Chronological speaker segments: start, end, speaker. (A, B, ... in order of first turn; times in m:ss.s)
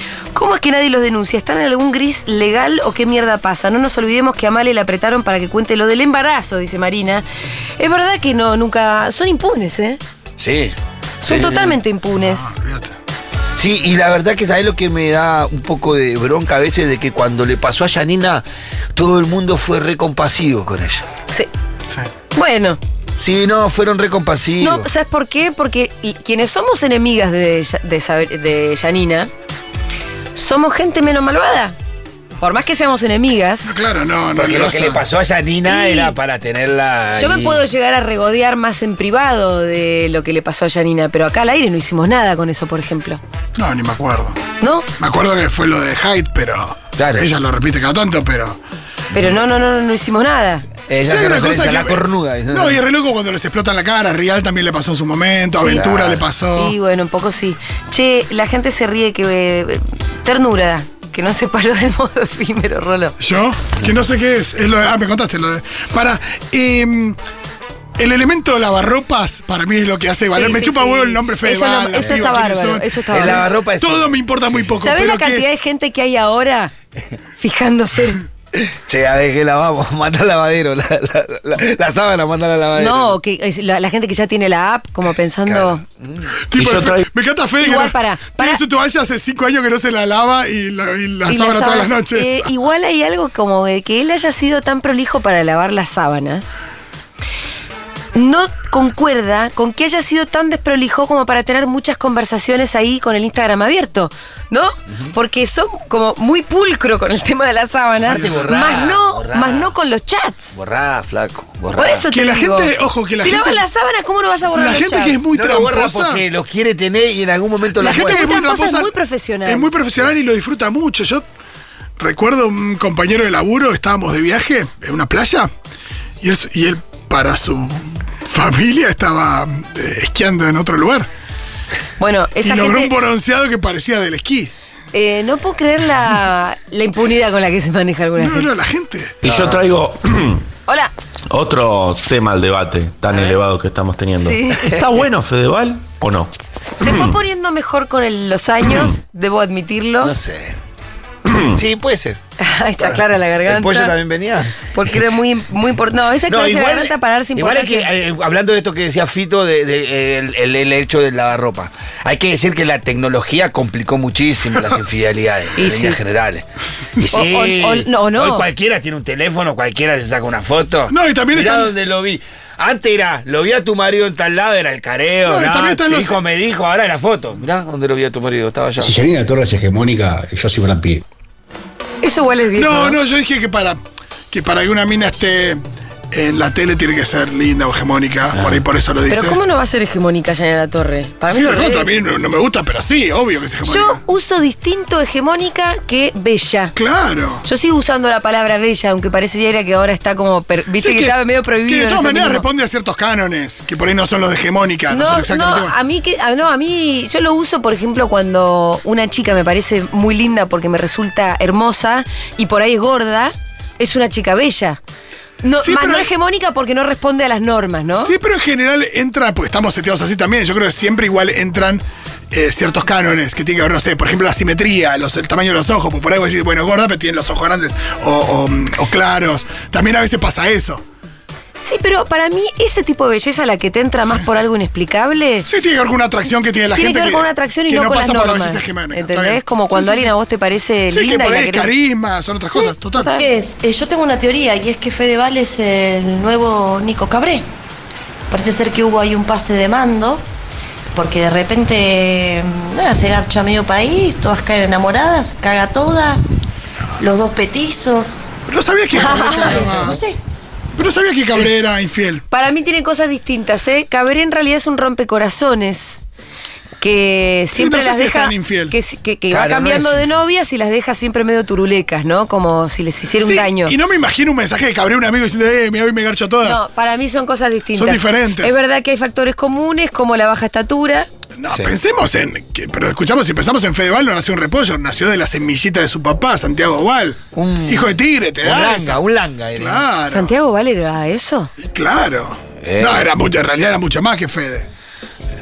0:00.3-0:07.2 A
0:07.8-0:10.0 A
0:10.4-0:11.8 B
0:11.2-0:12.6 A
0:12.2-0:12.9 C
0:13.6-0:21.0 B
0:22.3-0:22.8 A
0:23.2-0:24.9 B
0:24.6-0:29.3 A
0:30.3-0:31.8 A
0:32.4-0:33.7 A
0:33.6-0:35.0 C
0:34.4-0:37.6 B
0:35.6-0:36.1 A
0:37.1-0:43.2 A
0:43.6-0:44.4 C
0:44.6-0:44.9 A
0:45.0-0:48.6 C
0:47.0-0:47.3 B
0:49.1-0:50.7 A
0:50.9-0:52.8 B
0:51.0-0:56.7 C
0:55.5-0:55.8 A
0:55.7-0:56.2 B
0:56.6-1:03.2 A
1:03.2-1:07.2 C
1:08.0-1:15.4 C
1:10.3-1:13.4 A
1:12.0-1:12.2 B
1:13.1-1:14.7 B
1:14.8-1:16.7 A
1:17.4-1:18.2 A
1:18.6-1:23.2 B
1:22.7-1:25.8 A
1:25.5-1:26.4 B
1:26.5-1:32.5 C
1:26.6-1:27.0 D
1:27.6-1:28.6 A
1:31.3-1:36.5 A
1:38.1-1:50.5 A
1:48.0-1:49.7 B
1:50.5-1:52.0 B
1:51.8-1:55.2 A
1:52.1-1:53.6 C
1:54.5-1:56.2 C
1:55.3-1:58.3 B
1:57.8-1:58.9 C
1:57.8-1:59.7 A
1:59.4-2:01.2 C
2:02.0-2:05.5 C
2:06.2-2:11.1 C
2:12.0-2:12.9 A
2:12.4-2:14.5 C
2:14.9-2:18.5 A
2:18.2-2:19.2 C
2:19.2-2:20.4 D
2:19.2-2:19.7 B
2:20.7-2:20.9 A
2:21.3-2:27.2 D
2:24.2-2:24.7 A
2:26.8-2:30.1 A
2:30.0-2:30.6 B
2:31.3-2:31.6 D
2:31.4-2:32.2 B
2:32.4-2:33.9 A
2:32.8-2:35.0 B
2:34.7-2:37.9 A
2:36.3-2:46.4 B
2:45.6-2:46.0 A
2:47.0-2:59.0 B
2:47.1-2:48.4 A
2:50.9-2:51.7 C
2:55.3-2:56.2 C
2:58.8-3:01.0 E
3:02.0-3:03.0 A
3:02.6-3:03.8 C
3:04.3-3:05.6 C
3:06.1-3:09.4 C
3:08.4-3:08.6 B
3:09.1-3:11.9 A
3:11.3-3:14.0 C
3:13.6-3:16.7 A
3:16.8-3:17.4 C
3:17.4-3:22.4 A
3:20.8-3:25.7 C
3:24.9-3:34.8 A
3:35.4-3:38.1 A
3:35.6-3:36.1 C
3:38.0-3:50.8 C
3:51.6-3:55.5 A
3:55.4-4:00.1 C
3:56.7-4:01.7 A
4:00.9-4:03.1 C
4:02.5-4:03.2 A
4:03.2-4:07.4 F
4:08.3-4:10.2 F
4:10.9-4:16.3 F
4:17.0-4:18.3 F
4:18.5-4:20.0 C
4:18.9-4:19.7 A
4:18.9-4:20.2 F
4:20.8-4:22.2 C
4:22.3-4:26.0 A
4:26.8-4:33.7 A
4:27.5-4:28.7 C
4:29.3-4:30.1 B
4:33.2-4:36.6 C
4:36.4-4:41.1 A
4:37.7-4:38.6 C
4:41.4-4:49.0 C
4:41.5-4:41.7 B
4:47.3-4:49.8 B
4:49.6-4:50.3 C
4:50.1-4:51.5 A
4:51.6-4:54.7 C
4:52.6-4:53.1 B